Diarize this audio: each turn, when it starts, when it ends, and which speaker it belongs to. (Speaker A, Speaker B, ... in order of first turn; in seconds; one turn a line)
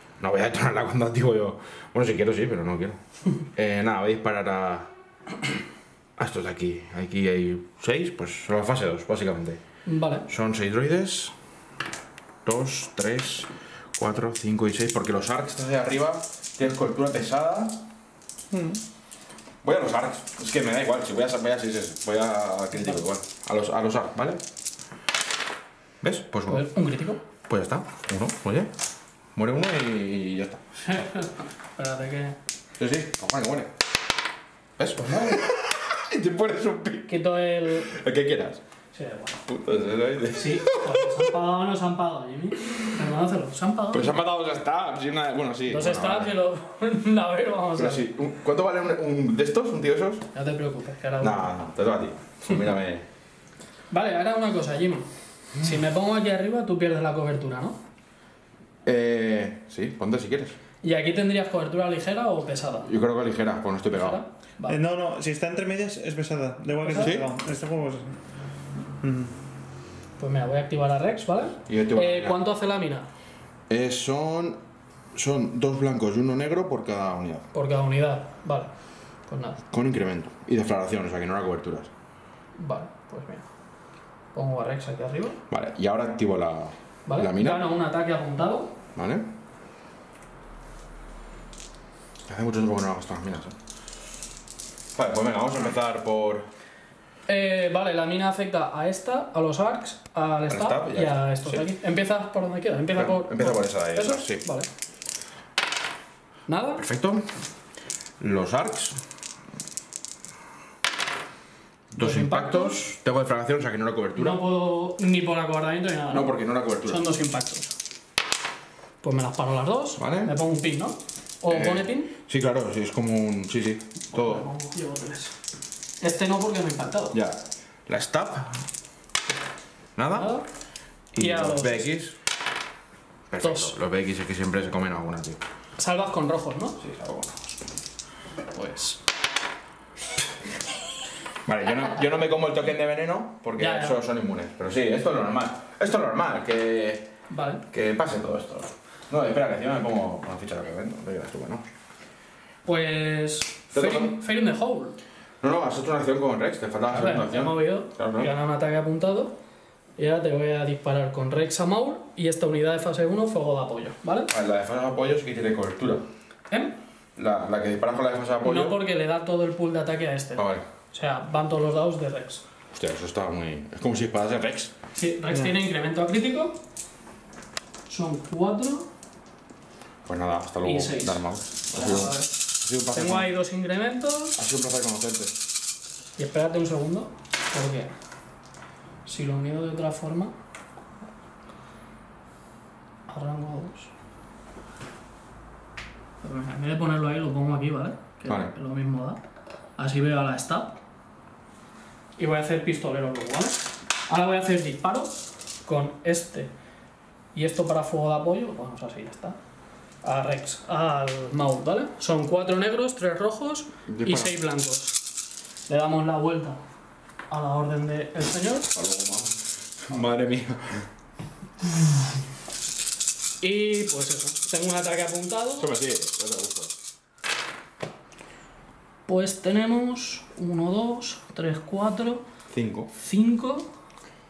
Speaker A: 0.2-4.9
Speaker A: 6.2-9.6
Speaker B: 9.9-10.3
Speaker A: 10.3-11.4
Speaker A: 12.4-17.8
Speaker C: 18.5-18.8
Speaker A: 19.6-24.4
Speaker A: 26.0-26.7
Speaker B: 26.5-27.2
Speaker A: 27.5-28.7
Speaker A: 29.4-30.6
Speaker B: 30.8-32.4
Speaker A: 32.8-33.7
Speaker A: 34.8-38.6
Speaker B: 35.0-35.4
Speaker B: 37.1-37.9
Speaker B: 38.9-39.4
Speaker A: 39.5-41.4
Speaker B: 40.4-44.1
Speaker A: 43.9-46.4
Speaker B: 45.7-48.0
Speaker A: 47.8-50.3
Speaker B: 50.3-51.5
Speaker A: 51.2-53.1
Speaker B: 53.9-57.8
Speaker A: 58.9-60.6
Speaker B: 60.8-62.9
Speaker A: 62.9-64.2
Speaker B: 63.9-64.8
Speaker C: 64.7-68.2
Speaker B: 66.8-67.2
Speaker A: 67.0-67.3
Speaker C: 69.0-69.3
Speaker B: 70.2-73.1
Speaker A: 71.7-72.4
Speaker A: 73.7-74.6
Speaker A: 75.1-77.5
Speaker B: 77.5-78.7
Speaker B: 79.3-79.6
Speaker A: 79.7-81.9
Speaker B: 82.6-83.5
Speaker B: 84.3-85.4
Speaker A: 85.5-87.7
Speaker B: 87.1-88.7
Speaker A: 89.0-89.3
Speaker A: 92.3-93.6
Speaker A: 95.0-96.5
Speaker B: 97.3-104.7
Speaker A: 100.5-101.7
Speaker A: 103.0-104.5
Speaker B: 106.5-106.8
Speaker A: 106.8-107.3
Speaker A: 108.2-109.0
Speaker A: 111.9-114.4
Speaker B: 112.0-112.8
Speaker B: 114.2-117.7
Speaker A: 116.1-117.1
Speaker B: 119.0-122.1
Speaker A: 120.0-120.4
Speaker A: 121.5-124.5
Speaker B: 124.1-125.4
Speaker B: 126.0-127.2
Speaker A: 127.1-128.7
Speaker A: 130.0-130.4
Speaker B: 130.1-130.4
Speaker A: 131.1-132.2
Speaker B: 131.2-131.9
Speaker A: 133.3-135.4
Speaker B: 133.4-133.8
Speaker B: 135.8-136.8
Speaker A: 136.8-137.6
Speaker B: 138.5-139.0
Speaker A: 141.4-147.1
Speaker B: 143.6-144.0
Speaker B: 147.3-147.6
Speaker A: 147.7-151.7
Speaker B: 152.7-155.0
Speaker A: 153.7-154.2
Speaker A: 155.4-158.3
Speaker B: 156.9-159.3
Speaker B: 160.0-164.3
Speaker A: 164.3-166.1
Speaker B: 166.5-166.8
Speaker A: 167.2-168.8
Speaker B: 168.4-172.4
Speaker A: 170.4-170.7
Speaker A: 172.8-174.7
Speaker B: 175.0-176.6
Speaker B: 177.9-178.9
Speaker A: 180.1-183.3
Speaker B: 180.6-182.4
Speaker B: 182.9-184.4
Speaker A: 184.4-185.4
Speaker B: 186.2-187.9
Speaker B: 189.1-190.3
Speaker B: 193.1-193.9
Speaker B: 196.2-199.2
Speaker A: 198.3-198.5
Speaker B: 199.8-200.8
Speaker B: 202.2-206.5
Speaker B: 207.3-209.4
Speaker B: 210.0-215.0
Speaker A: 213.9-214.4
Speaker B: 215.7-216.6
Speaker B: 217.3-218.7
Speaker A: 218.7-220.9
Speaker B: 223.4-225.7
Speaker A: 225.6-226.7
Speaker B: 229.1-232.3
Speaker A: 232.5-232.9
Speaker B: 233.0-233.7